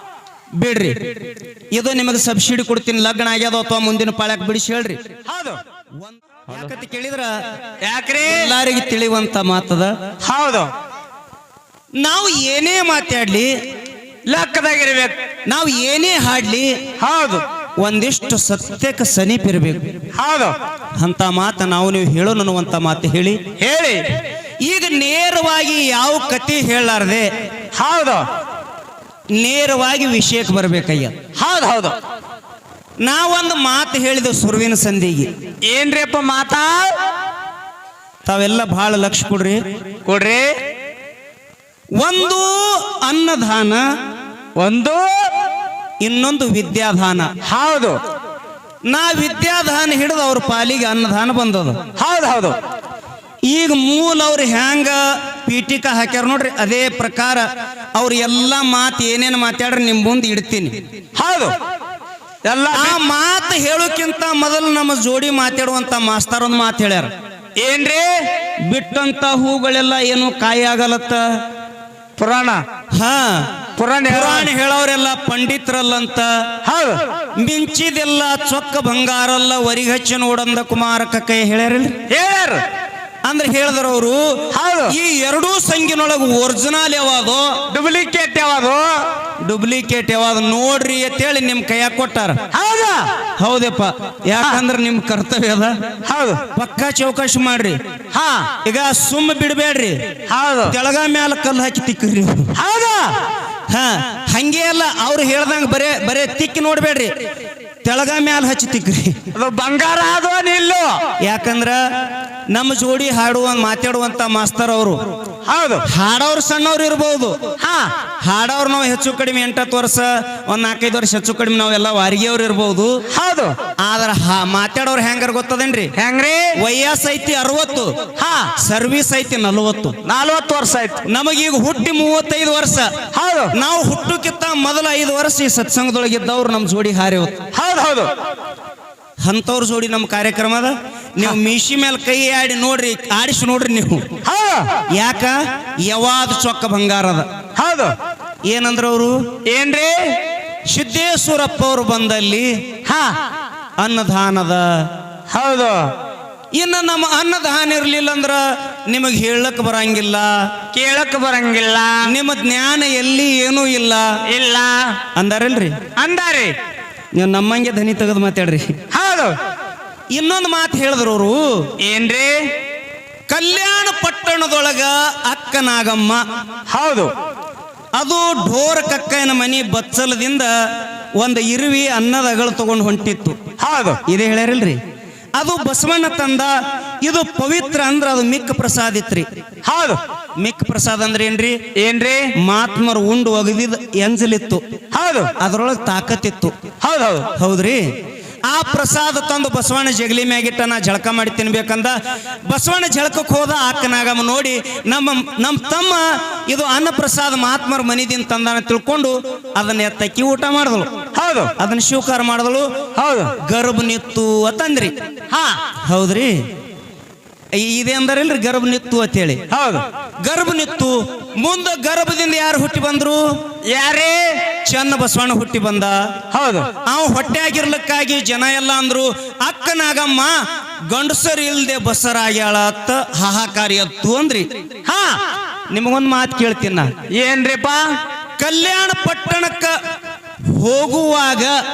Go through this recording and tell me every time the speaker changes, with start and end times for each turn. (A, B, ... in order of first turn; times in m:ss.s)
0:00.6-0:01.1 A
0:01.7-0:05.0 A
0:05.3-0:05.6 B
0:06.0-0:07.4 A
0:07.8-0:08.5 B
0:08.2-0:09.9 A
0:10.2-0:10.7 B
0:12.0-0:13.5 A
0:14.3-0:15.2 B
0:15.5-0:16.8 A
0:17.0-0:17.4 B
0:17.8-0:19.9 A
0:20.2-0:20.6 B
0:21.0-0:23.4 A
0:23.6-0:24.2 B
0:24.6-0:27.3 A
0:27.7-0:28.3 B
0:29.4-0:31.1 A
0:31.4-0:32.0 B
0:33.0-0:35.3 A
0:35.6-0:37.0 B
0:38.3-0:39.6 A
0:40.0-0:40.6 B
0:42.0-0:43.8 A
0:44.6-0:45.3 B
0:46.0-0:47.3 A
0:47.4-0:48.0 B
0:48.9-0:51.8 A
0:52.0-0:52.6 B
0:53.4-1:00.8 A
1:01.2-1:01.6 B
1:02.4-1:03.0 B
1:02.7-1:07.1 A
1:07.6-1:08.3 B
1:08.6-1:11.4 A
1:12.2-1:12.6 B
1:12.9-1:13.5 A
1:13.8-1:14.5 B
1:14.1-1:16.4 A
1:16.6-1:17.0 B
1:17.4-1:21.9 A
1:22.1-1:22.6 B
1:23.2-1:27.6 A
1:24.5-1:25.0 B
1:27.7-1:29.1 B
1:29.4-1:32.4 A
1:32.5-1:33.1 B
1:33.4-1:35.8 A
1:36.0-1:36.4 B
1:36.5-1:37.8 A
1:38.1-1:38.5 B
1:38.6-1:40.0 A
1:40.3-1:40.8 B
1:40.7-1:42.5 A
1:42.6-1:43.2 B
1:43.7-1:47.1 A
1:47.8-1:49.2 A
1:49.3-1:51.0 B
1:51.2-1:51.8 A
1:52.5-1:55.0 A
1:55.5-1:55.8 B
1:55.8-1:57.4 A
1:57.6-1:57.9 B
1:58.2-2:03.0 A
2:03.1-2:03.6 B
2:03.8-2:05.9 A
2:06.0-2:06.6 B
2:06.6-2:07.9 A
2:08.2-2:08.5 B
2:08.6-2:10.0 A
2:10.0-2:11.0 B
2:11.0-2:12.9 A
2:13.1-2:13.6 B
2:13.5-2:17.4 A
2:17.5-2:18.1 B
2:19.2-2:24.1 A
2:24.2-2:24.8 B
2:24.9-2:27.3 A
2:27.6-2:28.0 B
2:28.4-2:29.2 A
2:29.5-2:30.2 B
2:30.7-2:32.5 A
2:32.9-2:33.2 B
2:33.8-2:34.7 A
2:35.3-2:35.9 B
2:36.6-2:40.4 A
2:40.7-2:42.1 B
2:42.0-2:44.1 A
2:44.3-2:45.0 B
2:45.2-2:45.8 A
2:46.0-2:46.6 B
2:47.2-2:48.7 A
2:48.9-2:49.4 B
2:50.1-2:51.6 A
2:51.8-2:52.5 B
2:53.3-2:56.2 A
2:56.7-2:57.1 B
2:58.0-3:00.5 A
3:01.2-3:03.4 A
3:03.6-3:04.0 B
3:04.1-3:04.8 A
3:05.4-3:09.3 A
3:09.6-3:10.0 B
3:10.4-3:11.6 A
3:11.8-3:12.3 B
3:12.4-3:14.6 A
3:14.9-3:15.3 B
3:15.4-3:16.5 A
3:16.8-3:17.3 B
3:17.4-3:17.8 A
3:18.5-3:30.9 A
3:31.2-3:31.5 B
3:31.6-3:32.7 A
3:33.0-3:33.4 B
3:33.4-3:35.0 A
3:35.3-3:35.6 B
3:35.8-3:36.4 A
3:37.6-3:39.4 A
3:39.5-3:39.8 B
3:40.2-3:43.3 A
3:43.6-3:44.4 B
3:44.6-3:46.1 A
3:46.3-3:46.7 B
3:46.8-3:54.5 A
3:54.8-3:55.2 B
3:55.7-3:56.9 A
3:57.1-3:58.0 B
3:58.4-3:59.8 A
4:00.5-4:01.6 A